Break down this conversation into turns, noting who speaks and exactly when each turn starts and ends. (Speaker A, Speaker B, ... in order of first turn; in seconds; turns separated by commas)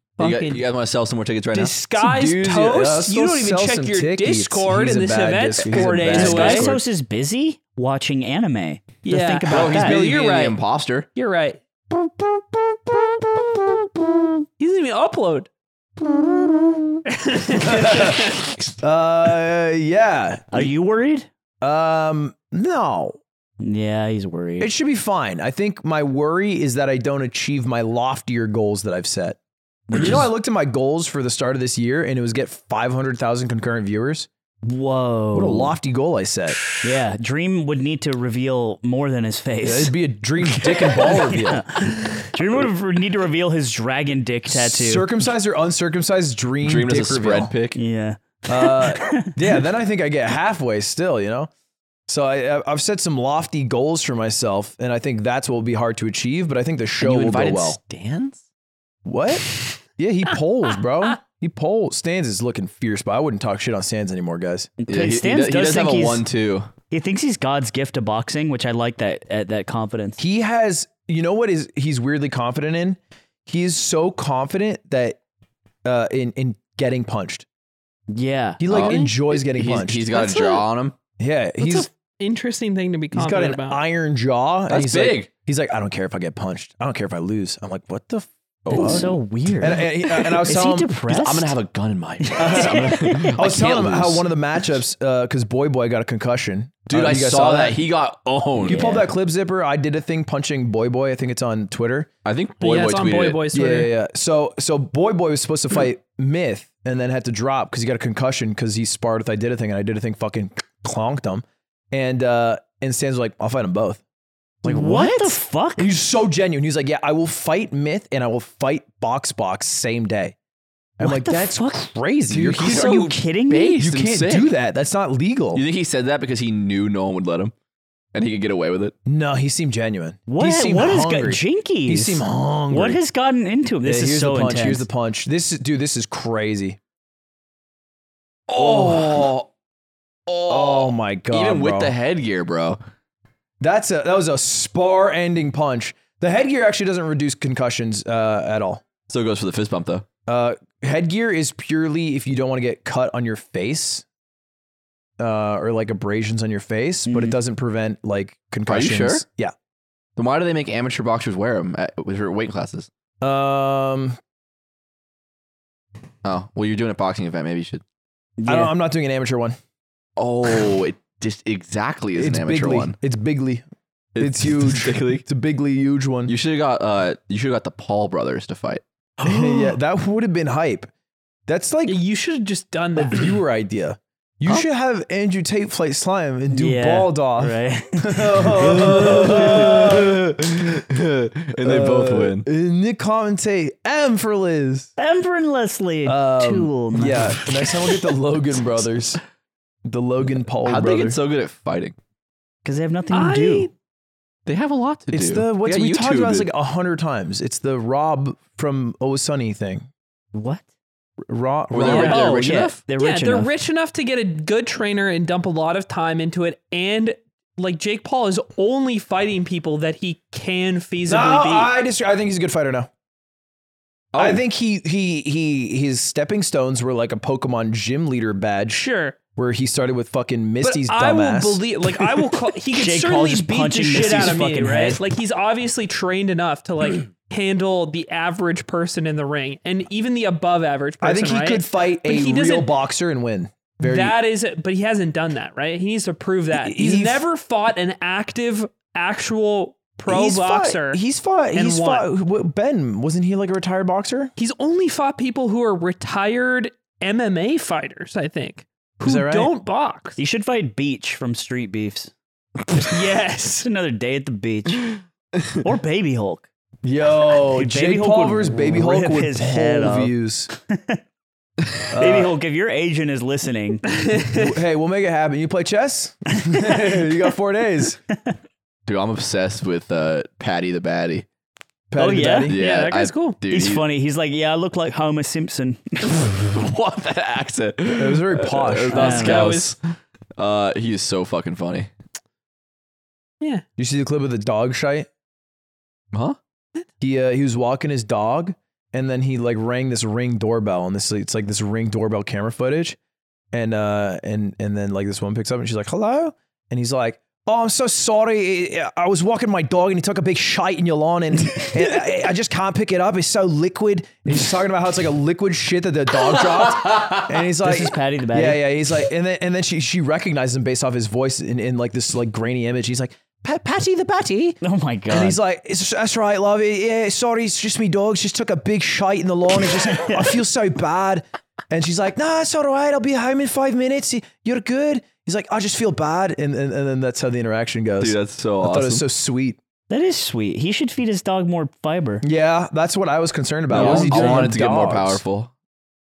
Speaker A: 0.2-0.6, Speaker B: 0.2-1.8, Speaker A: 1.5-6.8, Speaker C: 1.9-6.8, Speaker B: 5.6-5.9, Speaker D: 6.1-10.0, Speaker A: 9.0-10.6, Speaker B: 9.5-11.1, Speaker A: 11.1-11.6, Speaker C: 12.2-14.3, Speaker A: 14.6-15.5, Speaker C: 16.0-17.0, Speaker A: 17.1-18.6, Speaker C: 17.6-20.7, Speaker D: 20.5-21.3, Speaker C: 21.6-23.2, Speaker D: 23.6-24.7, Speaker C: 24.6-29.4, Speaker D: 29.9-30.2, Speaker C: 29.9-34.3, Speaker D: 34.6-35.7, Speaker C: 35.3-36.6, Speaker D: 36.8-39.9, Speaker C: 39.6-41.6, Speaker D: 40.9-45.1, Speaker C: 44.5-47.5, Speaker B: 46.6-47.8, Speaker D: 47.7-49.4, Speaker C: 48.5-51.5, Speaker C: 52.1-57.8, Speaker B: 57.0-58.4, Speaker C: 59.0-64.7, Speaker D: 64.9-66.2, Speaker B: 64.9-66.7, Speaker D: 66.9-70.2, Speaker C: 70.2-75.2, Speaker C: 75.8-77.5, Speaker D: 78.1-79.0, Speaker C: 78.6-80.1, Speaker B: 78.7-81.0, Speaker A: 80.1-80.7, Speaker C: 81.2-81.9, Speaker A: 81.6-83.8, Speaker C: 83.1-89.1, Speaker B: 84.7-85.3, Speaker B: 88.6-89.2, Speaker D: 88.7-91.5, Speaker C: 89.6-91.0, Speaker B: 91.1-94.2, Speaker D: 92.2-93.3, Speaker C: 92.4-97.8, Speaker B: 96.9-99.0, Speaker C: 98.6-102.1, Speaker D: 98.6-99.1, Speaker B: 102.2-103.5, Speaker A: 102.6-103.9, Speaker C: 103.5-114.0, Speaker C: 114.6-120.3, Speaker D: 114.6-115.9, Speaker C: 121.0-123.1, Speaker D: 121.0-121.9, Speaker B: 122.3-124.5, Speaker D: 122.6-123.8, Speaker C: 123.8-125.6, Speaker B: 125.5-127.5, Speaker B: 128.1-128.9, Speaker C: 129.1-133.0, Speaker D: 130.3-134.8, Speaker C: 133.8-136.8, Speaker B: 138.5-139.5, Speaker C: 138.5-139.3, Speaker B: 140.3-142.8, Speaker C: 140.5-142.0, Speaker C: 143.6-148.8, Speaker B: 149.1-150.0, Speaker C: 150.2-154.0, Speaker C: 155.2-159.5, Speaker D: 157.1-157.3, Speaker B: 158.7-159.2, Speaker B: 160.2-162.9, Speaker C: 163.2-164.2, Speaker B: 166.2-167.8, Speaker D: 168.4-168.7, Speaker C: 168.5-169.6, Speaker B: 170.2-172.9, Speaker C: 172.1-173.6, Speaker B: 174.1-175.2, Speaker C: 174.2-176.3, Speaker B: 176.3-178.8, Speaker C: 179.2-180.9, Speaker A: 179.3-179.7, Speaker C: 181.5-182.0, Speaker A: 181.8-183.4, Speaker C: 183.0-190.8, Speaker D: 186.5-189.7, Speaker B: 188.9-192.4, Speaker C: 191.6-194.9, Speaker D: 195.0-197.4, Speaker C: 196.1-199.2, Speaker C: 199.8-201.2, Speaker B: 200.6-201.9, Speaker D: 202.6-203.7, Speaker A: 203.1-203.7, Speaker B: 204.4-206.5, Speaker C: 205.1-209.9, Speaker D: 210.3-210.6, Speaker C: 211.3-212.3, Speaker B: 211.7-212.8, Speaker A: 211.8-212.3, Speaker D: 211.8-213.5, Speaker A: 213.0-221.7, Speaker C: 221.0-222.9, Speaker B: 224.1-224.4, Speaker C: 224.2-232.2, Speaker A: 228.7-229.2, Speaker A: 230.6-242.7, Speaker D: 232.7-235.0, Speaker C: 241.0-244.2, Speaker A: 243.8-251.0, Speaker C: 246.5-247.2, Speaker C: 250.1-254.3, Speaker A: 251.5-252.1, Speaker A: 254.4-260.2, Speaker C: 259.0-259.5, Speaker D: 260.2-262.1, Speaker A: 262.9-263.6, Speaker D: 263.6-265.0, Speaker D: 265.6-266.4, Speaker C: 266.8-270.5, Speaker D: 267.5-271.0, Speaker C: 271.9-272.3, Speaker D: 271.9-273.8, Speaker A: 273.9-274.5, Speaker C: 274.3-278.0, Speaker D: 276.4-277.0, Speaker B: 278.9-281.2, Speaker C: 281.9-282.6, Speaker D: 282.0-282.5, Speaker B: 282.5-283.8, Speaker A: 282.5-283.4, Speaker D: 283.5-286.2, Speaker B: 286.2-289.8, Speaker C: 287.9-289.4, Speaker D: 288.9-289.5, Speaker A: 288.9-289.7, Speaker B: 290.4-291.9, Speaker C: 293.8-295.1, Speaker C: 297.0-303.0, Speaker C: 303.5-324.6, Speaker D: 317.5-318.7, Speaker D: 324.6-325.4, Speaker C: 325.1-339.6, Speaker B: 338.0-339.0, Speaker D: 339.9-342.2, Speaker C: 342.2-345.2, Speaker B: 343.7-345.5, Speaker D: 343.7-344.5